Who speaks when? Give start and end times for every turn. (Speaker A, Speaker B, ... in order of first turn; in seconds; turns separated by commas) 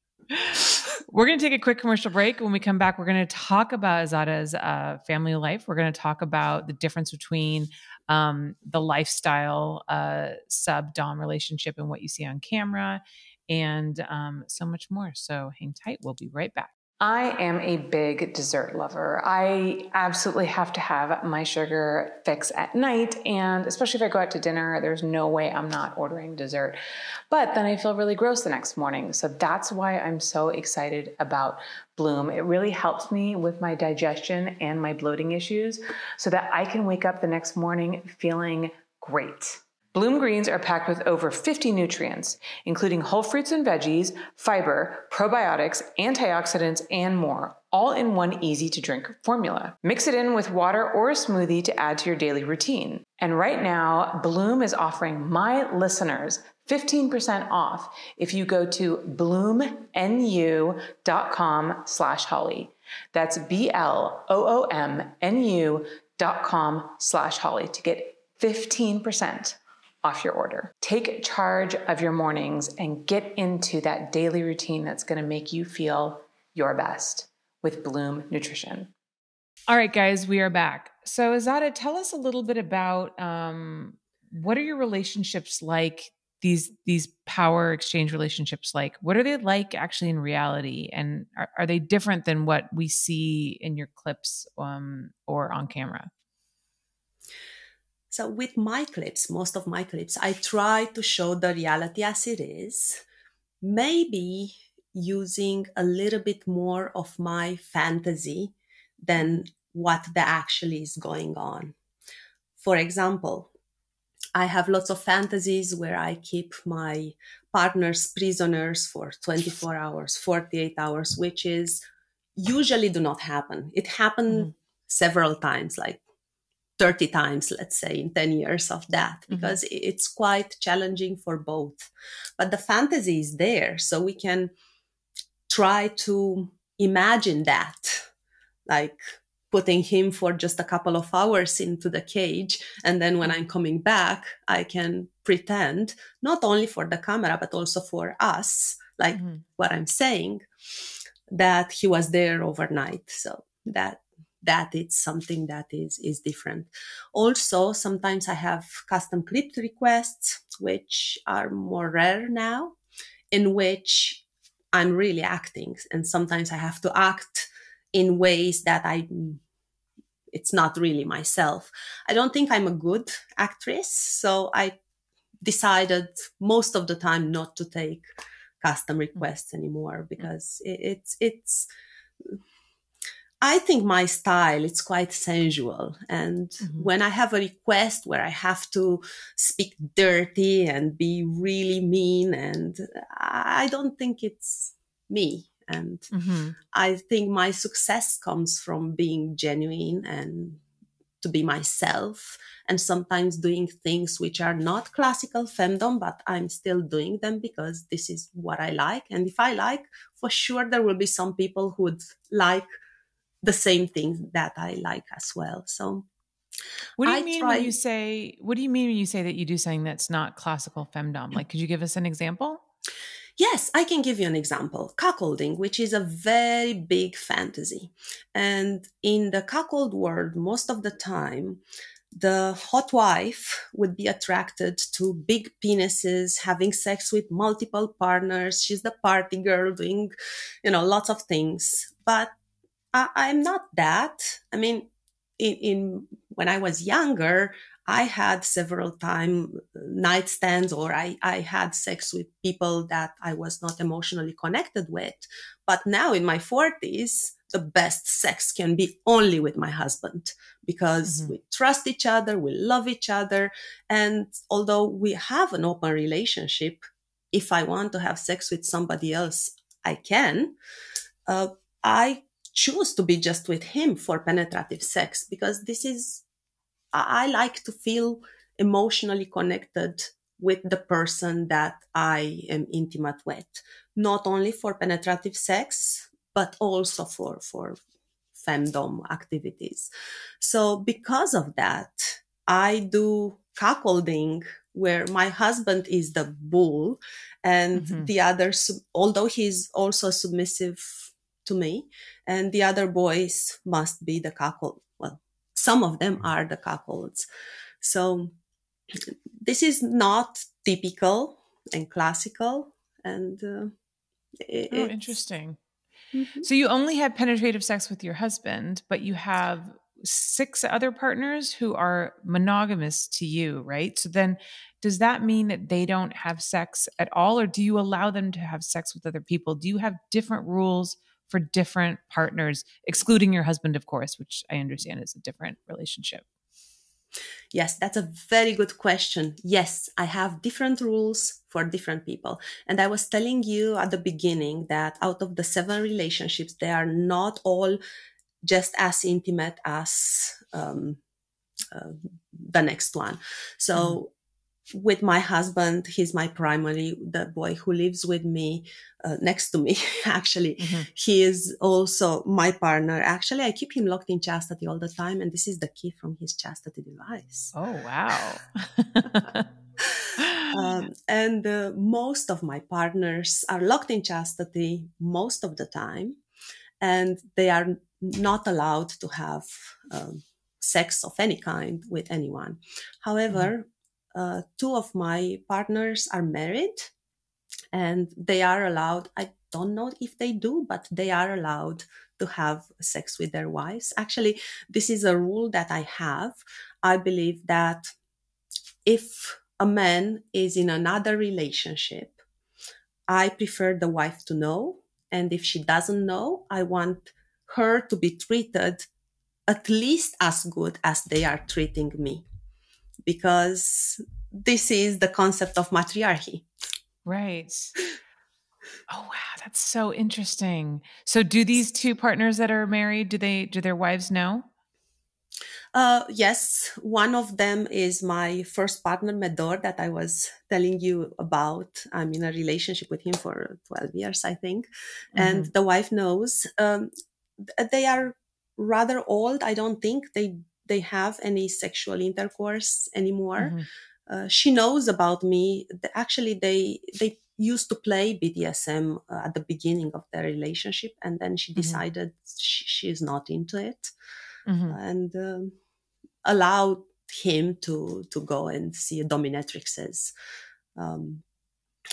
Speaker A: 0.3-26.8, Speaker A: 27.3-78.9, Speaker A: 79.7-96.1, Speaker B: 98.1-103.0, Speaker B: 103.6-111.8, Speaker B: 112.6-113.5, Speaker B: 114.3-121.8, Speaker B: 122.3-126.0, Speaker B: 126.8-134.5, Speaker A: 129.3-129.6, Speaker B: 135.5-138.1, Speaker B: 138.7-150.4, Speaker A: 149.1-149.4, Speaker B: 151.3-162.8, Speaker B: 163.3-169.4, Speaker B: 170.3-174.8, Speaker B: 175.4-178.1, Speaker B: 178.6-181.7, Speaker B: 183.4-196.1, Speaker A: 186.6-186.9, Speaker A: 196.1-196.6, Speaker B: 196.7-200.6, Speaker B: 201.2-212.7, Speaker B: 213.4-216.1, Speaker A: 217.0-222.6, Speaker B: 217.0-217.7, Speaker B: 223.4-231.6, Speaker B: 232.1-240.1, Speaker B: 240.6-242.3, Speaker B: 242.9-266.8, Speaker A: 261.0-261.3, Speaker B: 267.3-270.6, Speaker B: 271.2-276.2, Speaker B: 276.9-287.8, Speaker B: 288.4-289.9, Speaker B: 290.4-307.2, Speaker A: 297.8-298.1, Speaker B: 307.8-308.3, Speaker B: 308.9-313.7, Speaker B: 314.4-315.1, Speaker A: 314.7-315.6, Speaker B: 316.1-316.4, Speaker A: 316.4-336.2, Speaker B: 337.5-347.8, Speaker B: 348.4-351.0, Speaker B: 351.7-354.1, Speaker B: 354.7-367.5, Speaker A: 360.6-360.9, Speaker A: 367.5-369.4, Speaker B: 369.8-376.2, Speaker A: 370.2-370.5, Speaker B: 376.8-386.9, Speaker B: 387.7-397.9, Speaker B: 398.9-402.2, Speaker B: 403.1-408.9, Speaker B: 409.5-412.2, Speaker B: 413.0-416.4, Speaker A: 417.0-417.8, Speaker A: 418.9-424.5, Speaker B: 425.7-436.9, Speaker A: 435.1-435.5, Speaker B: 437.4-453.9, Speaker A: 443.4-443.6, Speaker A: 451.6-451.8, Speaker A: 454.5-454.8, Speaker B: 454.7-455.5, Speaker B: 456.2-460.1, Speaker B: 460.8-461.2